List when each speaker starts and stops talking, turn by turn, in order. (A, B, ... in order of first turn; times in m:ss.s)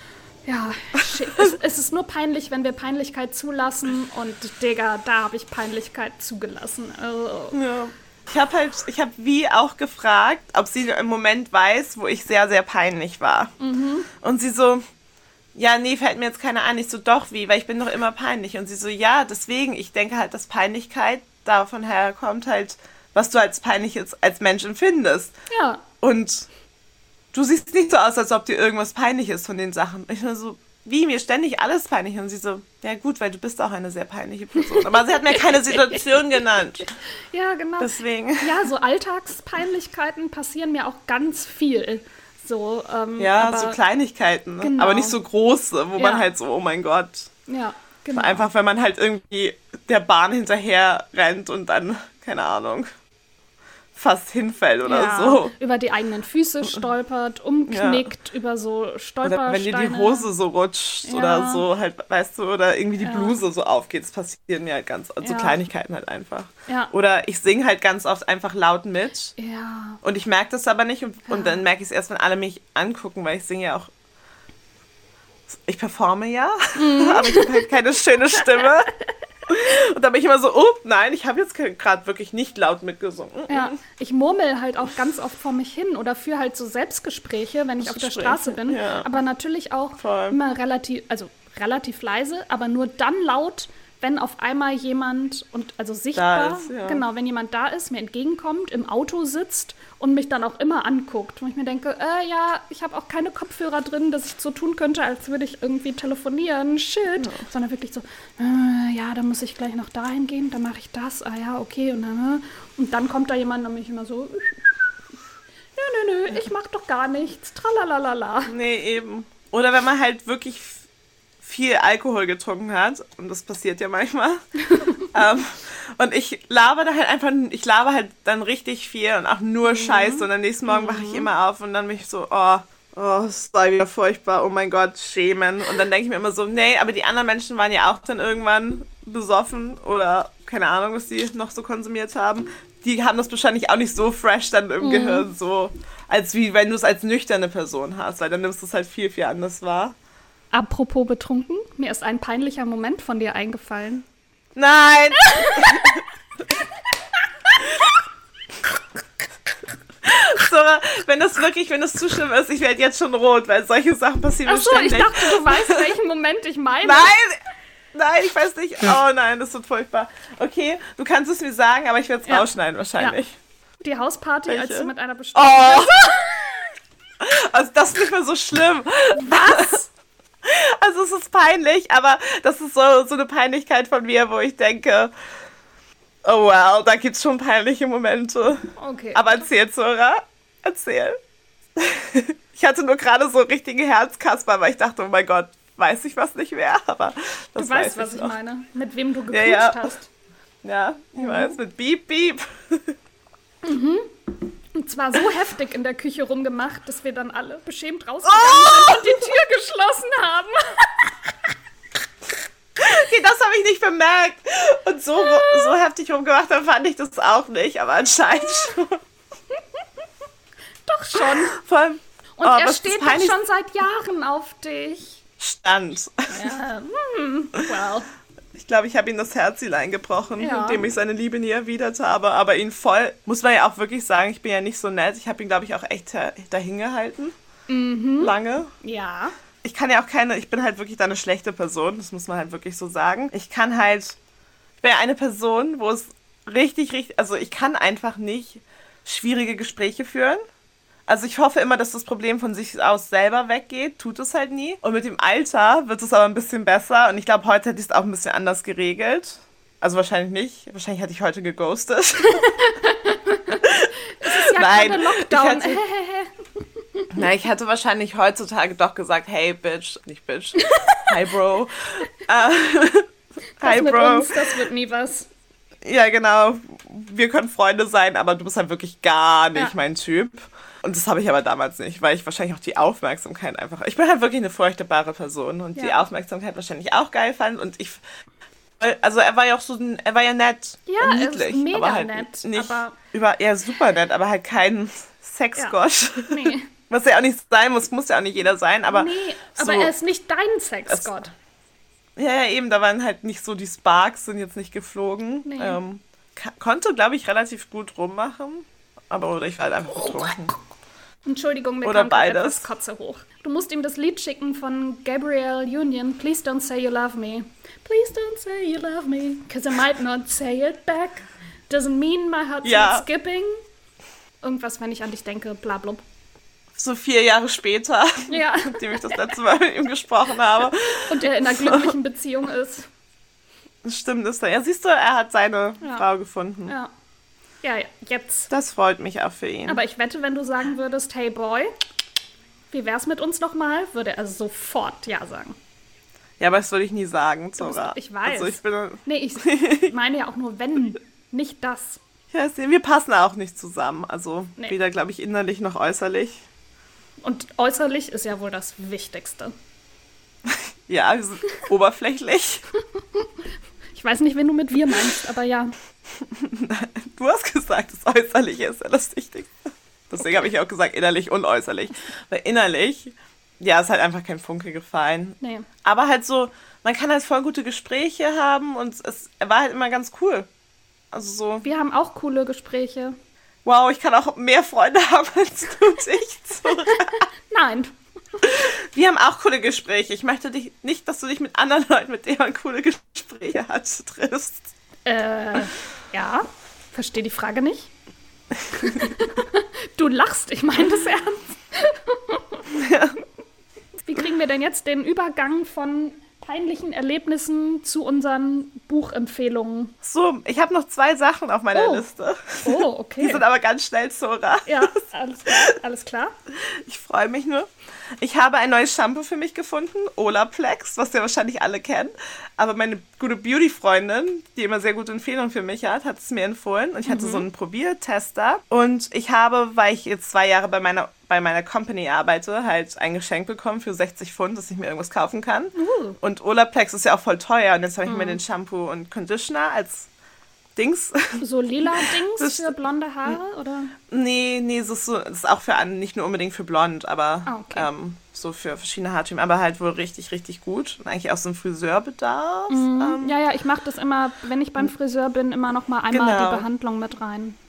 0:00.5-0:07.6 A
0:07.5-0:13.5 B
0:13.6-0:14.1 A
0:14.1-0:14.8 B
0:15.6-0:25.3 B
0:25.5-0:25.8 A
0:26.0-0:26.5 B
0:27.3-0:36.9 B
0:34.6-0:36.1 A
0:37.3-0:43.8 A
0:37.8-0:38.6 B
0:43.2-0:47.3 B
0:44.6-0:45.2 A
0:46.0-0:46.3 A
0:47.5-0:48.4 A
0:48.2-0:52.9 B
0:54.0-0:55.5 B
0:54.8-1:00.3 A
0:57.7-0:58.1 B
0:59.2-1:09.4 B
1:01.0-1:01.6 A
1:03.0-1:03.4 A
1:05.2-1:05.6 A
1:09.4-1:10.0 A
1:10.0-1:13.9 B
1:11.3-1:11.6 A
1:15.5-1:18.9 B
1:16.8-1:17.6 A
1:19.5-1:23.7 B
1:23.5-1:54.7 A
1:27.8-1:29.1 B
1:30.0-1:30.4 B
1:36.2-1:37.0 B
1:47.2-1:47.4 B
1:55.8-1:58.5 A
1:58.5-2:00.8 B
2:01.4-2:04.4 B
2:04.9-2:30.0 B
2:09.7-2:11.3 A
2:24.8-2:25.3 A
2:30.5-2:34.1 A
2:34.6-2:36.0 B
2:35.2-2:36.0 A
2:40.0-2:45.9 B
2:44.5-2:47.1 A
2:46.8-2:47.4 B
2:47.9-2:53.4 B
2:52.3-2:53.2 A
2:53.8-2:56.3 A
2:54.5-2:56.2 B
2:57.2-2:59.8 B
2:59.2-2:59.9 A
3:00.4-3:05.1 B
3:06.2-3:08.6 B
3:08.8-3:09.5 A
3:09.1-3:11.2 B
3:11.8-3:18.3 B
3:17.6-3:20.1 A
3:19.3-3:20.0 B
3:20.6-3:23.0 B
3:21.2-3:21.6 A
3:23.6-3:24.1 A
3:24.7-3:31.3 A
3:28.2-3:29.3 B
3:32.8-3:39.0 B
3:35.3-3:35.7 A
3:40.9-3:41.6 A
3:41.2-3:43.4 B
3:42.4-3:45.2 A
3:45.4-3:46.5 B
3:46.3-3:48.1 A
3:48.6-3:57.3 B
3:50.4-3:50.8 A
3:57.7-3:59.3 A
3:58.2-3:58.7 B
3:59.6-4:04.2 B
4:04.8-4:10.4 B
4:11.1-4:22.5 B
4:22.3-4:26.3 A
4:23.6-4:25.8 B
4:27.1-4:34.4 B
4:30.6-4:31.1 A
4:33.6-4:35.3 A
4:35.8-4:48.0 B
4:45.8-4:46.0 A
4:48.8-4:59.9 B
4:50.9-4:53.0 A
4:55.6-4:56.7 A
4:58.9-5:01.3 A
5:02.2-5:10.6 B
5:05.4-5:05.8 A
5:11.3-5:23.5 A
5:11.8-5:12.7 B
5:22.6-5:23.1 B
5:24.4-5:26.0 A
5:26.8-5:31.9 B
5:28.3-5:29.4 A
5:31.0-5:32.9 A
5:33.8-5:36.7 B
5:37.6-5:38.5 A
5:38.5-5:39.8 B
5:39.7-5:41.7 A
5:42.7-5:45.6 A
5:46.4-5:49.9 B
5:47.6-5:52.0 A
5:52.3-5:56.4 B
5:57.2-5:59.5 A
6:00.5-6:02.6 B
6:04.0-6:05.7 A
6:06.2-6:09.6 B
6:10.1-6:20.5 B
6:15.4-6:15.7 A
6:21.1-6:21.6 B
6:21.6-6:23.2 A
6:23.6-6:27.3 B
6:26.8-6:27.9 A
6:28.4-6:34.7 B
6:35.1-6:37.9 A
6:38.7-6:42.7 A
6:42.7-6:43.2 B
6:44.1-6:49.9 A
6:50.0-6:55.7 B
6:51.7-6:52.1 A
6:52.6-6:53.4 A
6:54.7-6:56.3 A
6:56.6-6:57.7 B
6:58.2-7:20.1 B
7:07.1-7:07.4 A
7:15.8-7:16.2 A
7:18.0-7:18.4 A
7:20.8-7:22.8 B
7:21.4-7:24.0 A
7:24.1-7:33.4 B
7:27.5-7:27.9 A
7:32.7-7:37.6 A
7:36.1-7:36.7 B